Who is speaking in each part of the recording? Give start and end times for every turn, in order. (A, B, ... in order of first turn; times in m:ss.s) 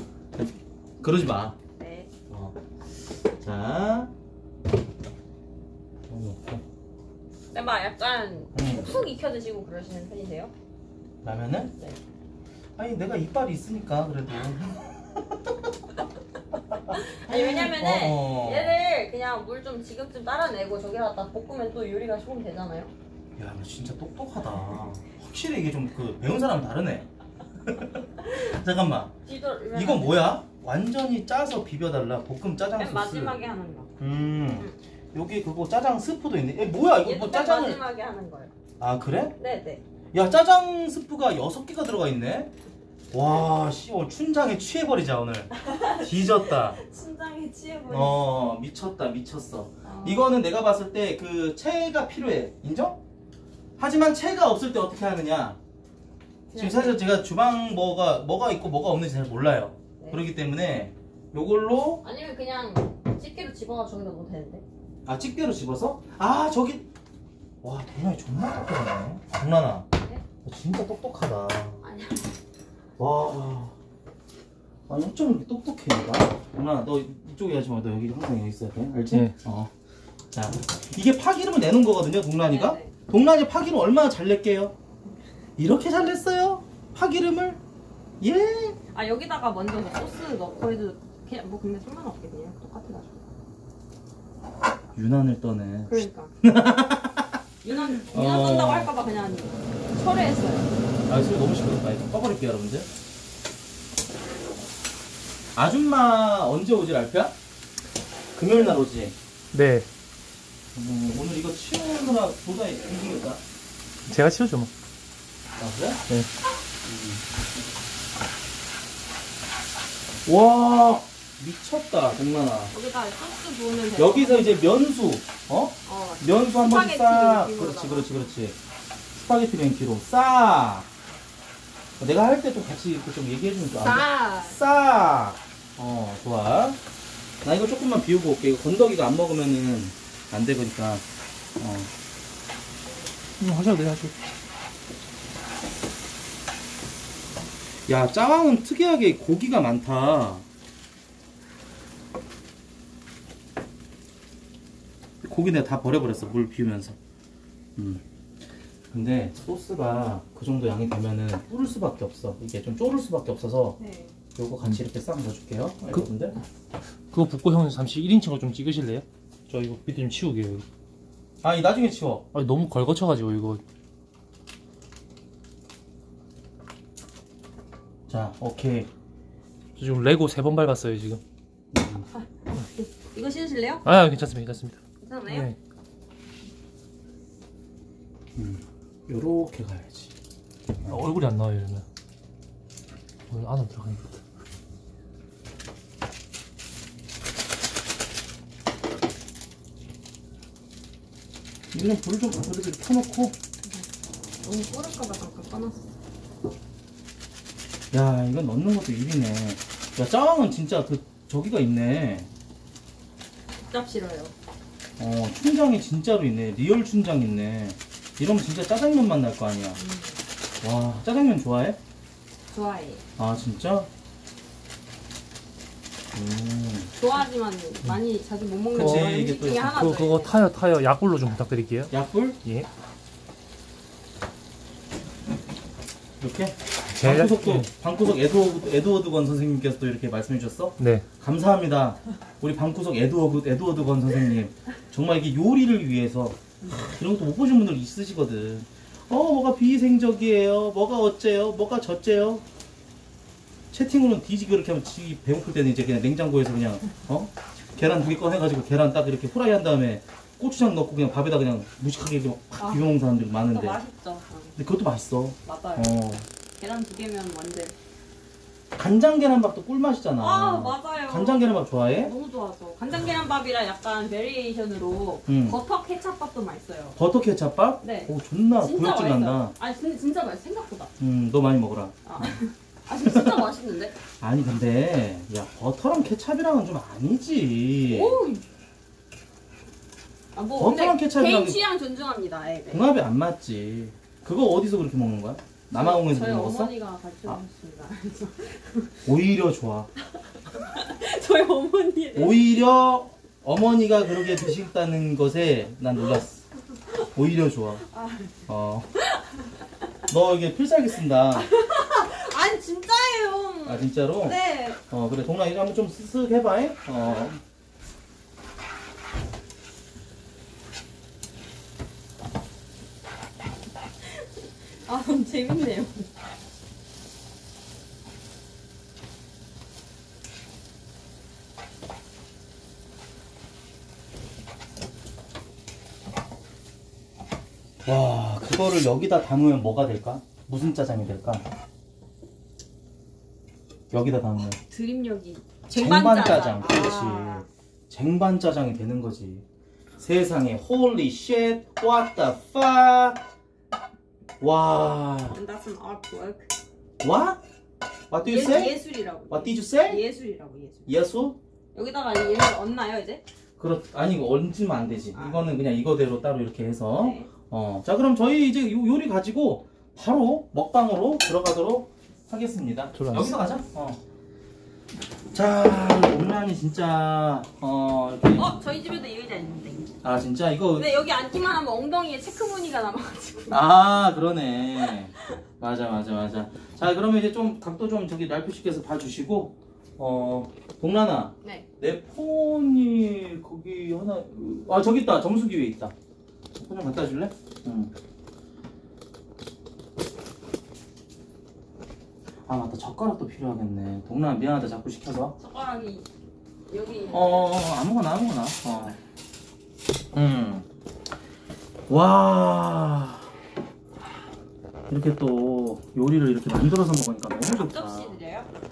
0:00.3-0:01.6 A
0:01.8-0:02.1 B
0:02.3-0:02.6 A
0:03.4-0:04.1 A
0:06.1-0:06.6 A
0:07.5-0:10.5 B
0:08.5-0:09.0 A
0:11.2-0:11.7 A
0:12.8-0:15.4 A
0:16.7-0:18.8 A
0:16.9-0:22.9 B
0:23.4-0:27.1 A
0:27.6-0:29.1 A
0:29.2-0:30.4 B
0:29.7-0:33.4 A
0:32.8-0:33.9 B
0:34.0-0:37.8 A
0:37.0-0:38.5 B
0:38.8-0:39.3 A
0:39.4-0:39.8 B
0:40.1-0:42.5 A
0:43.1-0:46.8 A
0:45.5-0:48.2 B
0:47.9-0:53.0 A
0:49.8-0:50.3 B
0:53.8-0:55.6 A
0:56.5-0:57.0 B
0:56.5-1:02.0 A
1:02.0-1:04.6 B
1:05.0-1:06.8 A
1:07.6-1:09.8 A
1:10.4-1:11.8 A
1:11.8-1:12.3 B
1:13.0-1:13.7 A
1:14.9-1:19.7 A
1:20.3-1:24.7 A
1:22.5-1:22.9 B
1:25.6-1:27.6 A
1:28.2-1:28.8 A
1:28.9-1:33.2 B
1:34.9-1:37.4 A
1:35.9-1:36.3 B
1:37.6-1:40.7 B
1:38.0-1:38.9 A
1:41.1-1:42.9 A
1:45.5-1:47.3 A
1:48.3-1:49.1 A
1:49.5-1:49.9 C
1:50.7-1:53.4 A
1:54.1-1:54.7 C
1:55.6-1:56.0 A
1:56.8-1:57.2 A
2:00.2-2:02.7 A
2:02.7-2:04.7 B
2:03.9-2:08.6 A
2:05.8-2:08.1 B
2:09.1-2:10.9 A
2:12.0-2:16.8 A
2:13.8-2:14.6 B
2:17.4-2:21.0 A
2:21.6-2:21.9 A
2:23.4-2:24.1 C
2:27.9-2:30.4 A
2:35.2-2:37.0 A
2:37.8-2:38.0 A
2:38.9-2:43.8 A
2:43.8-2:44.1 B
2:44.4-2:46.4 A
2:47.1-2:50.6 C
2:51.4-2:52.3 A
2:52.3-2:53.6 C
2:58.1-2:58.9 A
2:59.8-3:01.2 C
3:01.7-3:02.0 A
3:02.2-3:03.8 B
3:03.8-3:05.6 C
3:05.0-3:05.5 B
3:08.4-3:10.1 A
3:10.9-3:11.8 C
3:13.3-3:14.2 C
3:21.7-3:23.4 A
3:24.4-3:25.9 B
3:27.9-3:32.3 A
3:33.7-3:34.3 B
3:35.0-3:39.8 A
3:39.8-3:40.2 B
3:40.6-3:41.8 A
3:42.5-3:43.0 B
3:43.2-3:43.9 A
3:46.1-3:46.9 A
3:47.0-3:50.3 B
3:48.7-3:49.7 A
3:48.7-3:51.9 C
3:51.9-3:52.4 A
3:56.2-4:12.4 A
3:56.9-3:57.7 C
4:00.8-4:01.0 C
4:13.7-4:23.8 A
4:22.6-4:22.9 B
4:23.5-4:24.5 B
4:24.6-4:26.2 A
4:25.4-4:26.0 B
4:26.6-4:27.7 B
4:28.8-4:32.1 A
4:30.2-4:37.0 B
4:35.3-4:35.6 A
4:37.0-4:39.5 A
4:37.8-4:40.9 B
4:41.0-4:42.4 A
4:42.0-4:44.0 B
4:43.0-4:43.4 A
4:44.2-4:48.2 A
4:47.8-4:48.4 B
4:50.3-4:52.9 B
4:50.6-4:51.6 A
4:52.7-4:56.7 A
4:55.8-4:59.0 B
4:59.0-4:59.9 A
5:00.5-5:02.4 B
5:02.1-5:06.4 A
5:07.1-5:07.8 A
5:07.9-5:08.3 B
5:08.5-5:08.9 A
5:09.0-5:09.4 B
5:10.1-5:11.5 A
5:11.3-5:14.8 B
5:13.6-5:17.4 A
5:24.8-5:26.1 B
5:37.8-5:41.4 A
5:43.9-5:44.6 A
5:44.7-5:47.5 B
5:45.8-5:49.4 A
5:50.0-5:53.2 A
5:54.4-5:55.4 A
5:55.3-5:56.5 B
5:57.0-5:57.4 A
5:58.1-6:00.0 A
5:58.2-6:00.9 B
6:00.9-6:01.4 A
6:01.7-6:03.2 B
6:03.6-6:14.0 A
6:05.1-6:05.5 B
6:06.9-6:07.3 B
6:12.9-6:13.3 C
6:15.3-6:18.5 A
6:18.3-6:19.9 B
6:20.0-6:20.9 A
6:20.7-6:23.6 B
6:23.5-6:35.9 A
6:36.6-6:37.9 A
6:42.4-6:45.3 A
6:45.4-6:46.1 B
6:46.7-6:47.5 B
6:47.1-6:49.0 A
6:50.1-6:50.6 A
6:51.9-6:53.3 A
6:54.9-6:58.2 A
6:57.5-6:58.5 B